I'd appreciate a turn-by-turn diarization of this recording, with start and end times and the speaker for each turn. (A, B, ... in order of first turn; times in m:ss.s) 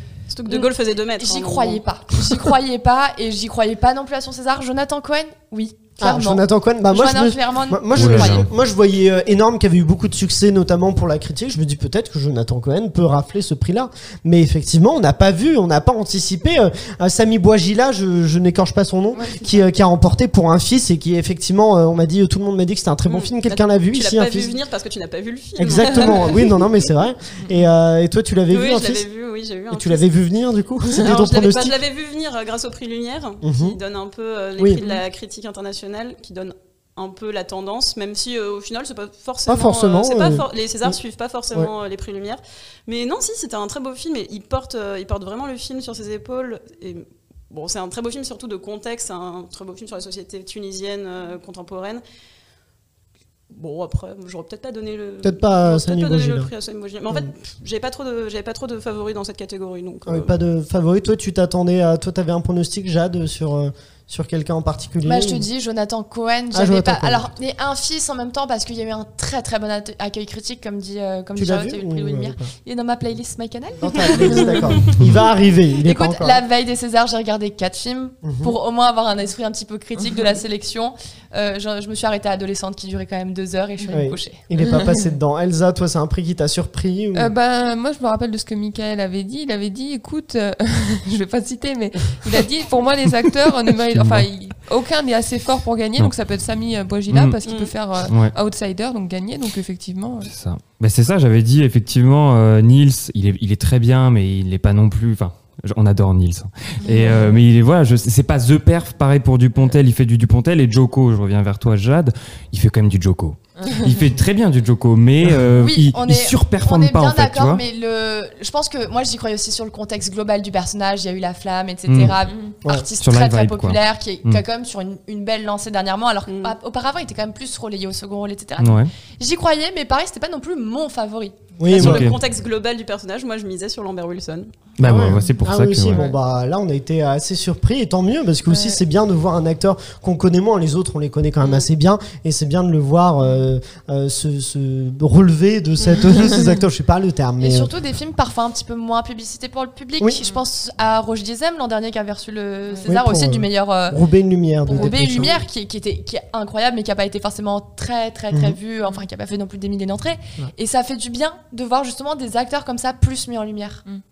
0:00.3-0:01.8 A
0:00.5-0:08.4 B
0:06.0-0:24.6 C
0:07.9-0:08.5 D
0:19.1-0:19.5 E
0:23.1-0:26.6 A
0:25.6-0:29.0 C
0:28.5-0:30.1 A
0:29.7-0:31.8 C
0:31.0-0:52.0 A
0:33.4-0:33.8 C
0:34.6-0:34.8 C
0:39.5-0:41.0 C
0:53.5-1:00.3 A
0:55.2-0:56.5 C
1:00.0-1:05.4 C
1:05.0-1:14.6 B
1:06.5-1:07.3 C
1:11.4-1:12.5 C
1:13.8-1:16.4 C
1:14.1-1:15.0 A
1:15.8-1:24.4 B
1:18.2-1:18.5 C
1:23.9-1:27.3 C
1:27.1-1:40.3 E
1:33.9-1:34.3 D
1:37.1-1:37.4 D
1:37.4-1:37.7 A
1:38.1-1:38.3 D
1:40.3-1:57.6 D
1:46.8-1:47.4 E
1:55.6-2:11.4 B
2:01.9-2:02.2 D
2:03.0-2:04.4 D
2:06.3-2:06.5 A
2:08.6-2:08.9 D
2:11.6-2:12.1 C
2:11.7-2:14.5 A
2:11.8-2:12.2 D
2:14.8-2:16.0 D
2:14.8-2:27.7 C
2:18.5-2:18.8 E
2:27.4-2:34.0 B
2:32.8-2:35.4 C
2:34.6-2:43.8 B
2:38.3-2:38.6 C